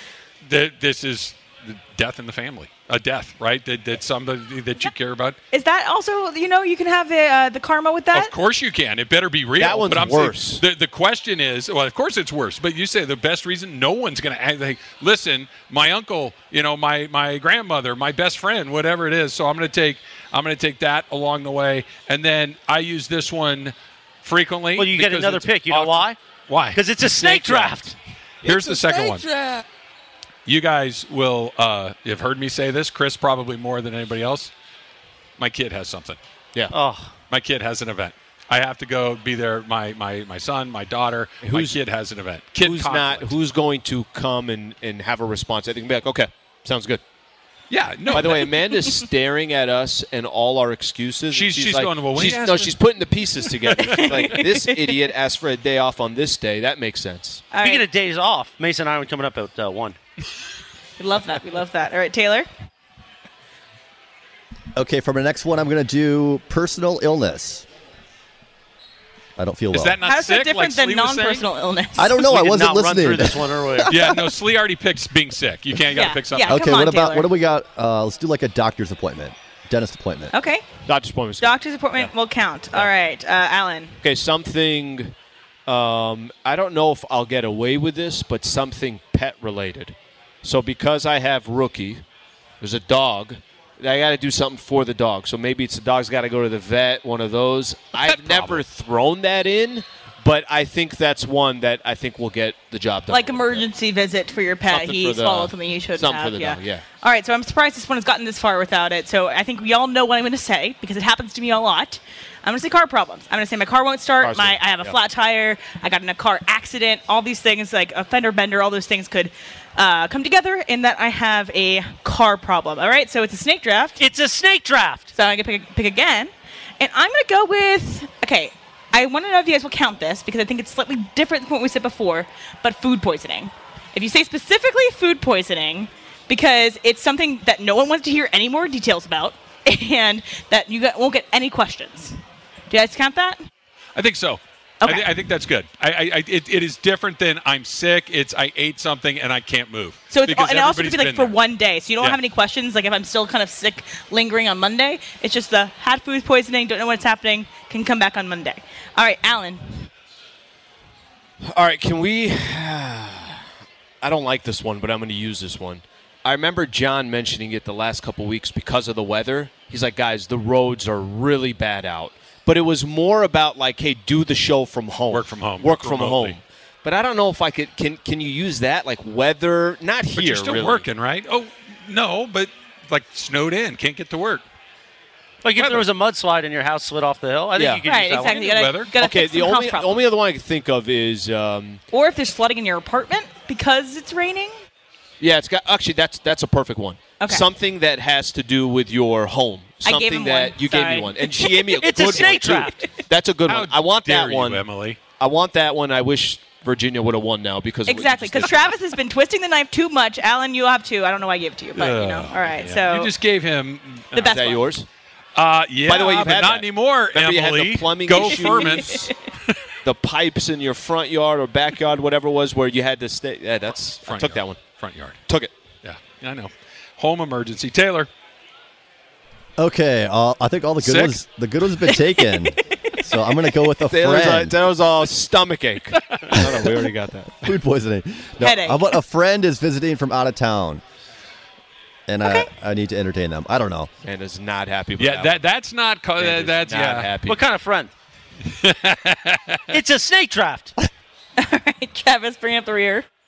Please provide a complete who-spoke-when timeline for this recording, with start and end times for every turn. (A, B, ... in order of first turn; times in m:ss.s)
0:00.4-0:05.4 A
0:05.5-0:08.3 B
0:08.1-0:27.7 A
0:09.6-0:10.6 C
0:24.8-0:26.2 D
0:26.7-0:27.9 D
0:27.2-0:27.7 C
0:28.4-0:29.2 A
0:28.5-0:28.9 C
0:29.0-0:29.6 D
0:30.4-0:34.5 A
0:35.4-0:36.2 A
0:36.7-0:37.1 D
0:37.3-0:43.3 A
0:41.4-0:41.8 C
0:42.6-0:47.0 C
0:47.7-0:48.6 A
0:48.1-0:57.5 C
0:51.3-0:52.8 A
0:53.7-0:54.4 A
0:53.8-0:54.9 B
0:57.5-0:57.8 B
0:57.6-1:00.0 D
1:01.0-1:02.5 B
1:04.7-1:07.7 E
1:09.4-1:10.0 E
1:09.7-1:11.4 A
1:10.0-1:12.2 B
1:12.0-1:14.2 E
1:12.2-1:13.9 D
1:13.9-1:16.7 A
1:15.9-1:17.3 B
1:16.4-1:20.3 E
1:20.3-1:20.6 B
1:20.8-1:22.1 C
1:21.4-1:24.0 B
1:24.0-1:25.1 C
1:25.7-1:32.0 C
1:32.6-1:43.6 C
1:38.0-1:38.6 A
1:43.1-2:04.0 B
1:44.7-1:46.8 C
1:54.2-1:55.0 C
2:04.0-2:05.1 D
2:05.1-2:22.2 B
2:22.7-2:23.4 B
2:23.9-2:31.4 A
2:24.8-2:25.1 B
2:30.1-2:39.9 B
2:41.4-2:43.4 C
2:44.0-3:00.8 C
2:55.1-2:56.4 A
3:00.1-3:04.4 A
3:05.4-3:08.5 D
3:05.5-3:05.9 A
3:07.6-3:07.8 C
3:07.8-3:10.0 B
3:08.2-3:08.9 A
3:09.0-3:11.8 C
3:11.9-3:14.5 B
3:15.2-3:24.6 C
3:17.2-3:17.4 B
3:19.8-3:21.8 B
3:21.8-3:22.9 D
3:23.4-3:25.0 A
3:25.2-3:28.7 C
3:27.8-3:33.1 B
3:31.7-3:34.4 A
3:34.1-3:34.8 B
3:34.2-3:34.9 C
3:35.3-3:39.6 A
3:35.8-3:39.1 C
3:38.2-3:39.1 B
3:39.8-3:44.6 C
3:44.0-3:45.2 A
3:45.3-3:45.5 C
3:45.8-3:48.1 A
3:49.6-3:54.6 E
3:50.8-3:51.2 A
3:51.8-3:53.0 B
3:53.8-3:57.6 C
3:56.0-3:56.4 A
3:57.4-4:00.8 E
3:58.4-3:59.0 B
4:02.1-4:03.9 E
4:04.0-4:05.4 C
4:05.0-4:07.1 A
4:06.2-4:07.4 C
4:07.2-4:07.9 D
4:08.4-4:09.8 A
4:09.7-4:10.7 D
4:11.4-4:13.0 B